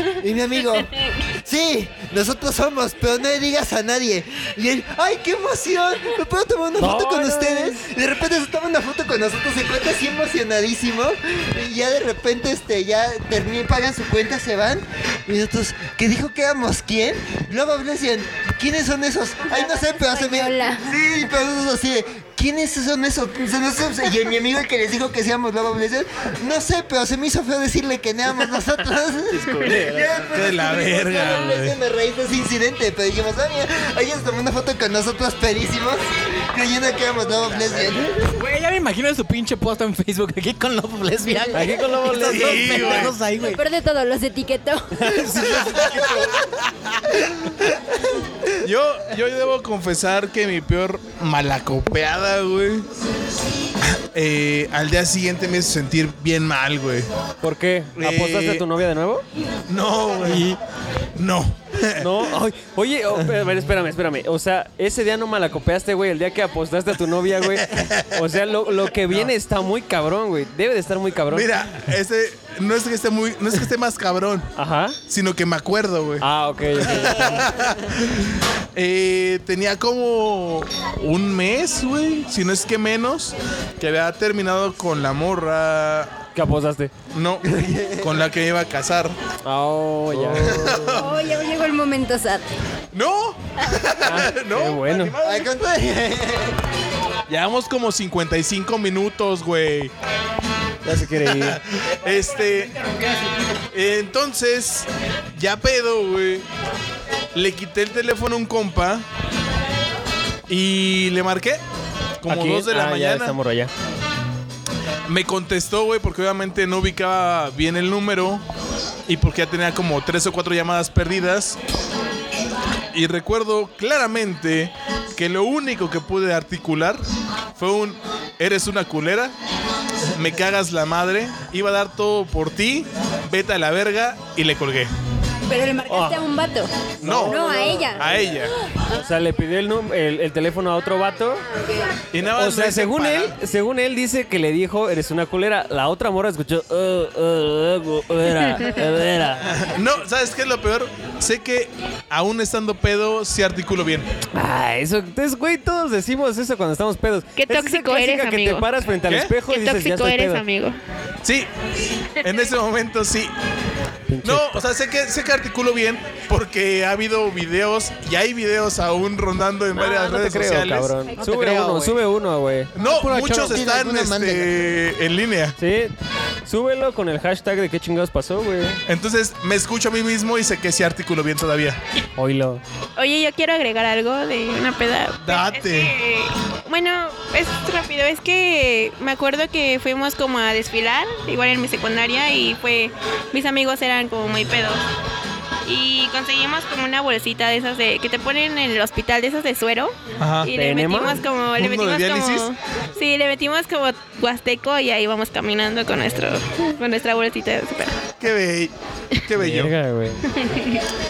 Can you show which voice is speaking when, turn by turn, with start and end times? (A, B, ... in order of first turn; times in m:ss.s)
0:00.2-0:00.9 A
0:01.4-0:38.4 A
0:06.8-0:07.9 B
0:19.5-0:20.9 C
0:29.3-0:30.2 B
0:30.3-0:31.8 D
0:38.3-0:43.6 E
0:41.5-0:43.1 B
0:42.1-0:43.2 D
0:43.4-0:45.2 C
0:44.9-0:46.3 B
0:48.6-0:52.8 D
0:54.1-0:57.1 D
0:57.4-0:59.2 B
0:58.0-0:58.6 D
0:59.7-1:00.5 D
1:00.2-1:00.6 B
1:01.2-1:02.1 D
1:02.0-1:11.5 B
1:07.6-1:08.2 D
1:11.3-1:14.5 D
1:14.6-1:15.0 B
1:15.1-1:16.2 D
1:16.2-1:17.4 B
1:16.8-1:26.2 D
1:26.3-1:26.9 B
1:27.1-1:27.5 D
1:27.4-1:28.2 A
1:28.0-1:29.1 D
1:29.4-1:30.9 B
1:30.1-1:31.1 D
1:30.7-1:32.4 C
1:32.9-1:35.5 D
1:34.0-1:35.2 B
1:35.2-1:36.6 A
1:37.3-1:39.9 D
1:40.8-1:41.6 B
1:41.0-1:42.7 D
1:43.7-1:46.4 D
1:47.3-1:49.0 D
1:50.5-1:51.6 D
1:52.2-1:53.4 D
1:52.3-1:53.7 B
1:55.1-1:58.4 D
1:59.1-2:01.6 D
2:02.9-2:07.0 D
2:07.6-2:09.3 D
2:10.1-2:14.9 D
2:15.5-2:18.2 C
2:15.9-2:16.2 B
2:17.0-2:18.3 B
2:17.0-2:18.5 D
2:18.9-2:21.4 B
2:22.1-2:23.3 D
2:22.3-2:29.5 B
2:29.4-2:34.1 D
2:34.3-2:40.4 B
2:37.4-2:38.6 F
2:39.1-2:39.3 D
2:39.5-2:40.8 F
2:42.2-2:43.3 D
2:44.1-2:44.7 B
2:44.2-2:51.0 D
2:49.7-2:52.7 B
2:51.2-2:52.0 E
2:52.7-2:55.6 D
2:52.8-2:53.6 E
2:53.4-2:54.5 A
2:55.6-2:55.9 B
2:56.4-2:58.8 B
2:58.9-3:01.8 D
3:02.2-3:02.6 B
3:03.0-3:14.8 F
3:05.2-3:05.9 D
3:15.6-3:28.0 F
3:20.2-3:20.5 D
3:20.5-3:21.2 B
3:21.6-3:22.5 D
3:28.2-3:28.7 D
3:29.2-3:29.8 D
3:29.4-3:30.2 B
3:30.4-3:30.8 F